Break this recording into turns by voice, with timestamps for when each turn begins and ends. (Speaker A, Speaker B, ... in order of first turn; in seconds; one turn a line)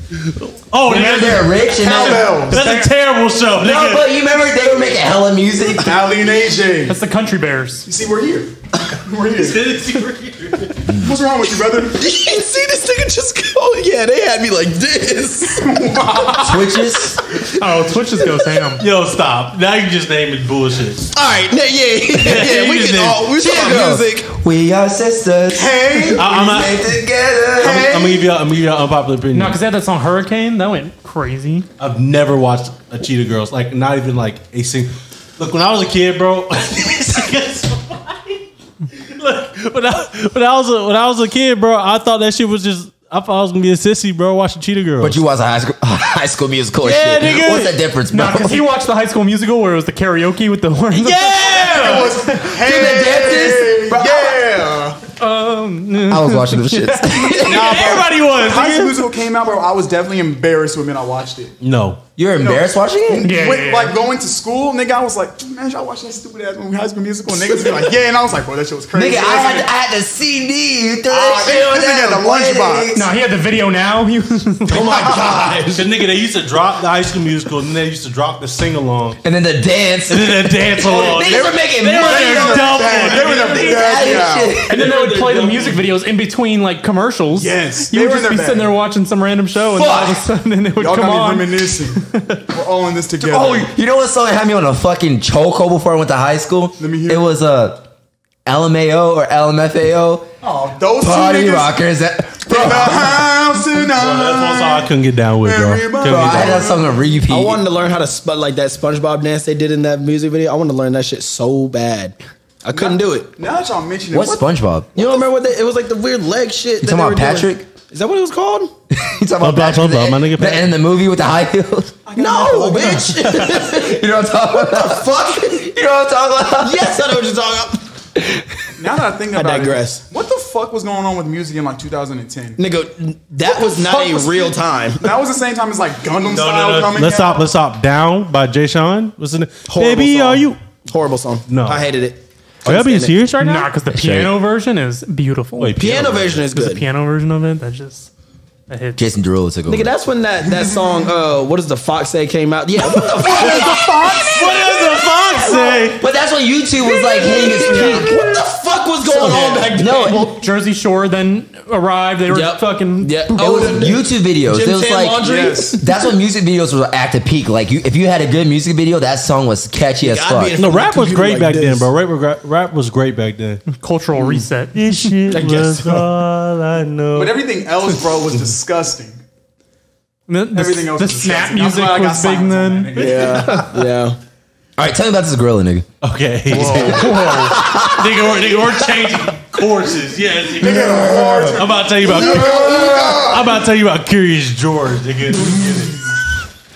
Speaker A: 0.2-4.1
Speaker B: 0.8-2.5
Speaker C: 1.7-2.8
Speaker D: 2.5-2.9
Speaker B: 3.6-5.9
Speaker C: 5.7-7.0
Speaker D: 6.9-7.9
Speaker C: 7.8-9.7
Speaker A: 9.3-10.8
Speaker C: 10.9-12.0
Speaker E: 11.9-15.7
Speaker C: 15.5-16.8
Speaker B: 16.4-17.2
Speaker D: 17.6-18.8
Speaker A: 18.8-21.1
Speaker E: 21.1-24.3
Speaker A: 22.2-23.2
Speaker B: 23.3-27.9
Speaker C: 25.5-26.7
Speaker A: 26.1-26.8
Speaker C: 27.6-28.3
Speaker A: 27.6-29.6
Speaker D: 29.3-31.7
Speaker A: 31.8-45.2
Speaker B: 45.0-48.6
Speaker A: 46.8-47.8
Speaker D: 48.1-52.5
Speaker A: 50.9-52.1
Speaker C: 51.5-55.0
Speaker B: 52.5-54.4
Speaker D: 55.2-57.5
Speaker B: 56.1-57.8
Speaker C: 57.4-61.5
Speaker A: 57.5-59.1
Speaker A: 61.6-62.0
Speaker B: 62.2-63.4
Speaker C: 62.4-69.7
Speaker D: 63.1-63.9
Speaker B: 68.9-73.1
Speaker C: 71.1-72.9
Speaker D: 72.9-75.0
Speaker E: 74.7-75.8
Speaker C: 74.8-75.6
Speaker A: 75.7-79.2
Speaker B: 79.2-84.9
Speaker A: 80.1-83.9
Speaker C: 80.8-84.5
Speaker D: 84.7-92.4
Speaker A: 84.7-85.8
Speaker C: 87.3-88.8
Speaker B: 89.7-90.2
Speaker C: 90.8-93.7
Speaker B: 93.2-97.8
Speaker C: 96.8-97.3
Speaker B: 98.4-100.2
Speaker C: 100.4-101.8
Speaker B: 101.0-103.3
Speaker C: 102.4-104.9
Speaker A: 103.9-106.7
Speaker C: 105.4-107.0
Speaker B: 106.0-107.6
Speaker E: 107.3-113.3
Speaker C: 112.7-114.5
Speaker B: 114.1-115.0
Speaker E: 114.9-118.7
Speaker B: 116.8-117.7
Speaker B: 118.9-122.0
Speaker A: 119.4-120.7
Speaker C: 122.0-123.3
Speaker E: 122.2-125.7
Speaker B: 122.5-127.0
Speaker E: 126.6-127.8
Speaker B: 128.2-128.4
Speaker C: 128.8-132.6
Speaker E: 129.3-130.0
Speaker E: 132.6-135.1
Speaker C: 133.5-137.4
Speaker A: 136.2-140.6
Speaker E: 139.7-143.2
Speaker A: 141.5-141.8
Speaker A: 142.6-144.3
Speaker D: 143.4-145.7
Speaker B: 144.0-144.3
Speaker A: 145.6-146.5
Speaker E: 145.8-146.8
Speaker D: 146.5-148.1
Speaker D: 148.7-149.0
Speaker B: 149.0-149.9
Speaker E: 149.7-154.2
Speaker C: 150.5-150.9
Speaker C: 153.1-154.8
Speaker A: 153.2-156.0
Speaker B: 155.6-158.4
Speaker E: 156.8-160.3
Speaker C: 157.7-158.0
Speaker D: 159.1-163.8
Speaker B: 159.7-160.3
Speaker E: 162.3-166.0
Speaker B: 163.3-170.6
Speaker C: 165.2-165.8
Speaker E: 170.0-171.9
Speaker A: 170.6-173.7
Speaker D: 173.7-175.2
Speaker A: 174.7-177.5
Speaker E: 175.3-176.1
Speaker C: 177.1-179.2
Speaker D: 180.3-182.9
Speaker C: 180.5-183.6
Speaker E: 182.9-184.2
Speaker B: 184.8-185.8
Speaker A: 186.0-196.0
Speaker D: 186.5-187.6
Speaker B: 186.6-188.1
Speaker C: 190.6-193.4
Speaker B: 190.7-191.5
Speaker E: 192.3-193.1
Speaker B: 192.4-193.2